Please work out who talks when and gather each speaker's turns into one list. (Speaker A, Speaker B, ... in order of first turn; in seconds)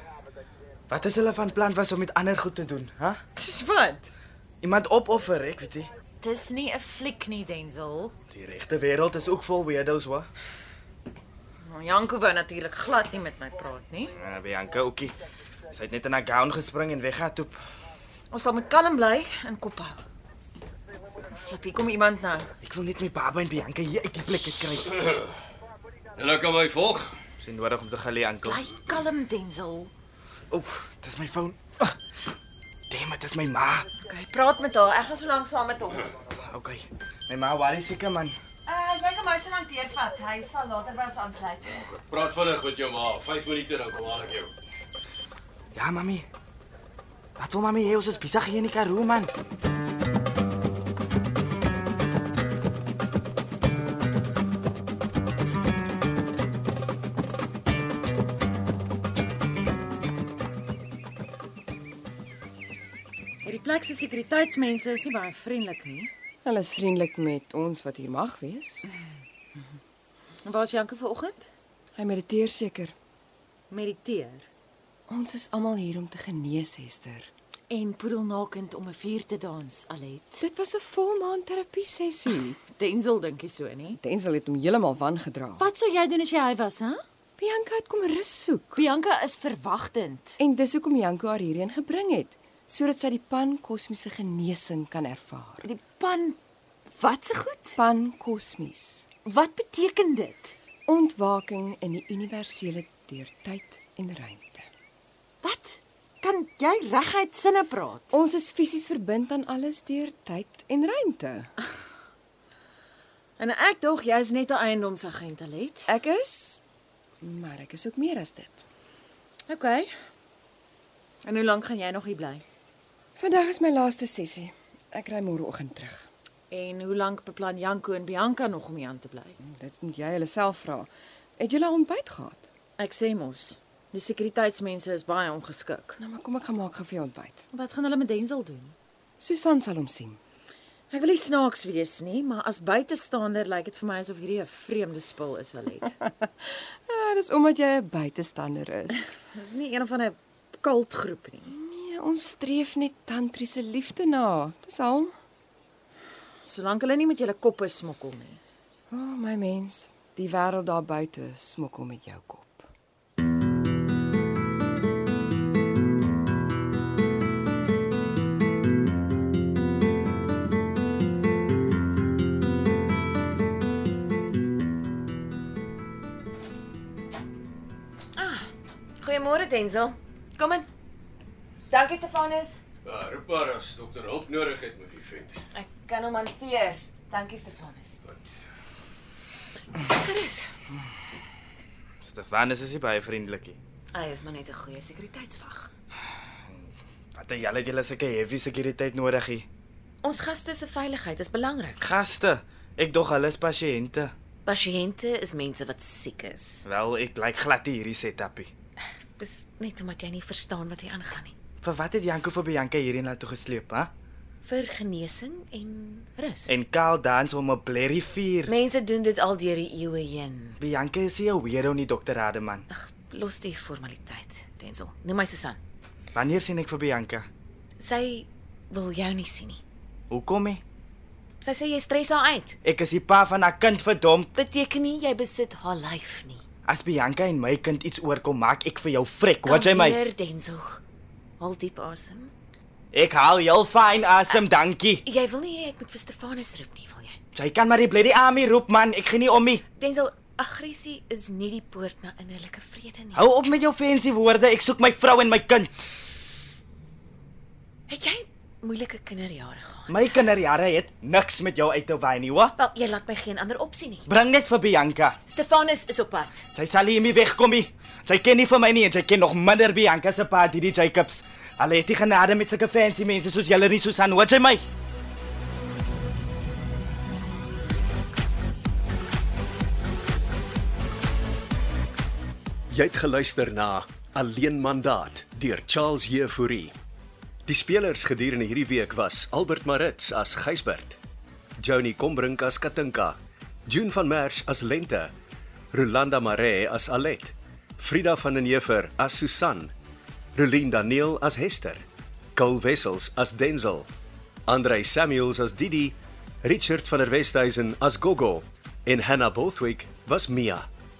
Speaker A: 0.9-3.2, 4.6-5.9, 8.3-10.3, 14.2-15.1, 15.7-17.6, 22.6-25.2, 27.4-28.6, 30.5-32.0, 32.9-33.9, 36.3-38.3, 45.7-46.2, 47.4-49.3, 192.0-193.6, 196.5-199.4, 201.8-204.1, 206.7-208.5, 211.6-213.9, 216.5-218.5, 220.6-222.7, 226.1-227.2, 230.1-230.6, 232.6-234.3, 236.7-240.0, 242.9-245.0, 247.3-249.6, 253.1-255.7, 259.9-262.5, 264.1-265.2, 266.5-274.6
Speaker B: 3.4-4.0, 6.2-8.1, 11.6-14.1, 18.3-20.0, 21.3-22.5, 28.4-29.9, 34.0-36.1, 38.7-42.0, 63.4-66.1, 70.4-71.5, 73.7-74.5, 77.7-80.4, 82.7-84.0, 85.6-87.0, 88.7-90.4, 95.6-96.4, 97.0-97.8, 99.2-100.5, 105.4-108.1, 113.4-115.9, 119.5-119.9, 121.2-122.4, 126.5-129.4, 132.8-136.0, 137.5-138.7, 140.9-145.9, 149.3-151.5, 156.4-158.4
Speaker C: 26.2-27.1, 42.0-44.5, 182.9-185.3
Speaker D: 66.4-68.9, 72.0-72.9, 75.1-77.3, 80.4-82.6, 84.0-85.7, 87.4-88.8, 90.4-95.7, 97.8-99.0, 100.9-104.7, 108.1-111.5, 115.9-116.6, 117.2-118.7, 123.2-126.1, 129.4-132.5, 136.0-137.4, 139.2-140.2, 146.1-149.1, 151.5-155.1, 158.9-162.7
Speaker E: 178.2-178.5, 179.0-180.7, 181.7-182.6, 185.5-188.0, 189.7-190.5, 193.9-195.7, 200.0-201.8, 204.4-206.7, 209.2-211.3, 214.4-216.5, 218.5-220.6, 222.7-225.6, 227.8-229.6, 231.4-232.6, 234.3-236.4, 239.4-240.8, 241.4-242.3, 245.0-247.2, 249.8-253.2, 257.9-260.1, 262.6-264.1, 265.3-266.4
Speaker F: 183.0-185.3, 282.7-286.7, 287.5-291.0, 291.6-295.1, 295.7-299.7, 300.4-301.8, 302.4-303.9, 304.5-310.7